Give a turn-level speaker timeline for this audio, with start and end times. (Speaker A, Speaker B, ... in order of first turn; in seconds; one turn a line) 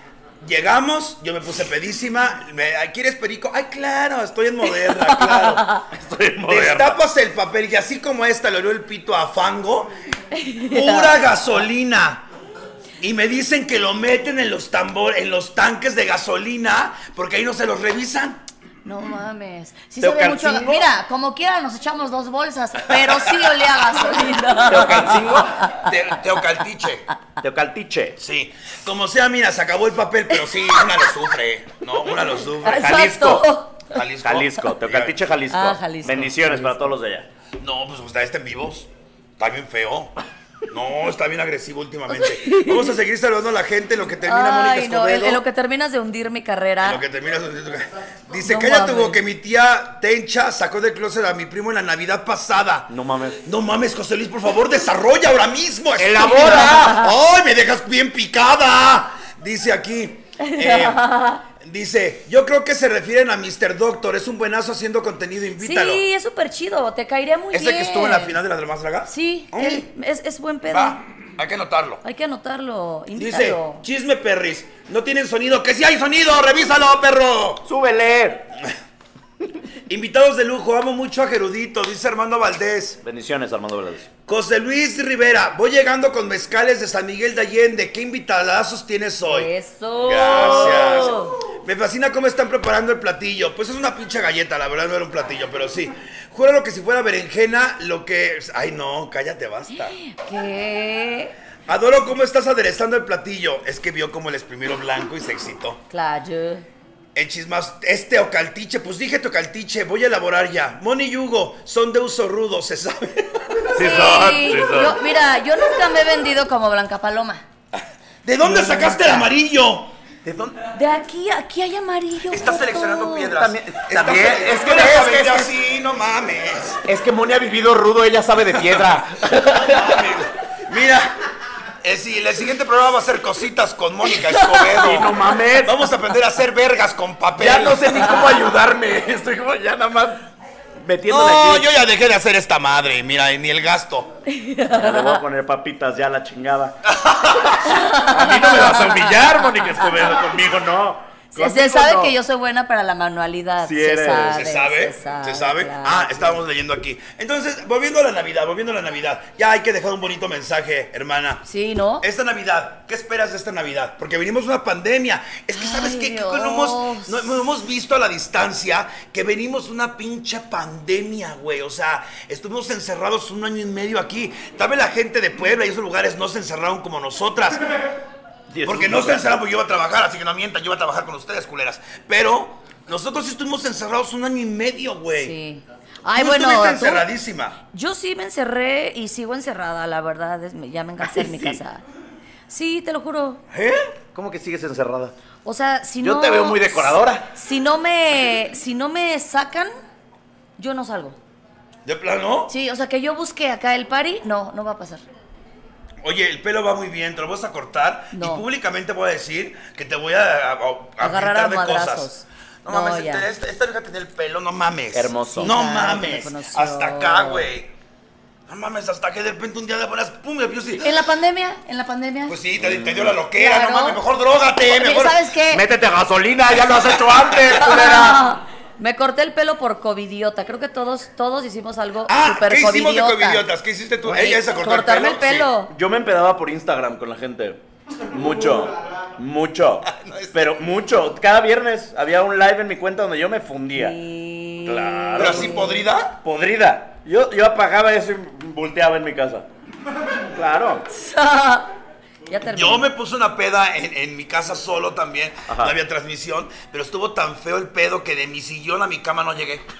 Speaker A: 0.4-5.8
Speaker B: 4.8-5.8
Speaker C: 5.9-7.0
Speaker A: 6.5-9.9
Speaker B: 10.3-11.2
Speaker A: 10.7-12.2
Speaker A: 13.0-18.4
Speaker B: 18.8-25.9
Speaker C: 20.0-20.9
Speaker C: 24.6-25.6
Speaker A: 25.7-27.1
Speaker C: 27.4-28.2
Speaker A: 28.2-33.0
Speaker B: 32.6-33.9
Speaker C: 32.7-33.5
Speaker A: 33.9-35.1
Speaker C: 34.2-37.3
Speaker B: 35.5-36.7
Speaker A: 37.6-38.9
Speaker A: 39.4-40.1
Speaker A: 40.7-45.4
Speaker B: 42.1-42.9
Speaker B: 44.2-47.0
Speaker A: 46.8-52.9
Speaker B: 48.4-49.2
Speaker C: 52.9-53.4
Speaker A: 53.4-66.0
Speaker C: 56.0-57.1
Speaker B: 56.2-57.1
Speaker B: 60.4-61.4
Speaker B: 65.6-68.4
Speaker A: 67.5-69.9
Speaker B: 69.1-71.0
Speaker A: 70.7-72.0
Speaker B: 72.0-73.8
Speaker A: 73.1-77.6
Speaker C: 77.6-78.5
Speaker A: 79.9-83.0
Speaker C: 83.0-84.1
Speaker A: 84.3-89.5
Speaker B: 89.3-91.4
Speaker A: 90.0-100.0
Speaker B: 99.8-101.3
Speaker A: 101.7-105.8
Speaker B: 105.9-106.7
Speaker A: 107.1-113.7
Speaker C: 113.7-115.0
Speaker B: 113.8-117.4
Speaker A: 118.2-119.9
Speaker B: 118.4-119.3
Speaker C: 120.2-120.6
Speaker B: 120.7-123.3
Speaker A: 122.3-126.8
Speaker C: 123.3-125.5
Speaker C: 126.8-130.2
Speaker A: 129.4-131.1
Speaker A: 131.8-138.4
Speaker B: 134.1-135.0
Speaker C: 134.8-135.8
Speaker C: 137.4-140.3
Speaker C: 140.8-141.7
Speaker A: 141.1-144.1
Speaker B: 144.3-145.2
Speaker C: 144.7-146.8
Speaker A: 146.9-147.6
Speaker C: 147.5-152.2
Speaker B: 147.6-150.0
Speaker B: 151.3-156.3
Speaker C: 153.6-154.4
Speaker A: 154.3-161.4
Speaker B: 161.4-162.1
Speaker A: 162.0-177.6
Speaker B: 165.5-167.4
Speaker C: 178.5-179.4
Speaker A: 178.6-185.3
Speaker B: 185.1-187.1
Speaker A: 186.1-187.6
Speaker B: 187.7-191.8
Speaker A: 191.1-191.6
Speaker B: 192.5-193.4
Speaker A: 193.5-193.9
Speaker C: 194.1-195.1
Speaker B: 195.4-199.7
Speaker C: 196.0-197.3
Speaker B: 200.6-201.2
Speaker A: 201.8-202.5
Speaker B: 202.5-205.1
Speaker A: 206.0-212.1
Speaker B: 208.1-208.4
Speaker B: 211.0-213.2
Speaker A: 212.6-217.7
Speaker C: 214.9-215.5
Speaker B: 215.4-217.5
Speaker A: 218.5-221.0
Speaker B: 220.8-222.4
Speaker A: 222.3-225.2
Speaker C: 222.6-223.2
Speaker B: 223.3-224.0
Speaker B: 224.7-225.6
Speaker C: 225.5-228.2
Speaker B: 227.6-233.4
Speaker A: 232.1-235.5
Speaker B: 234.0-235.7
Speaker C: 235.7-244.0
Speaker A: 239.9-240.4
Speaker B: 243.7-245.8
Speaker C: 244.6-249.5
Speaker A: 245.2-246.2
Speaker C: 250.3-250.9
Speaker B: 250.9-251.7
Speaker B: 252.3-252.9
Speaker A: 252.4-259.6
Speaker C: 255.5-255.7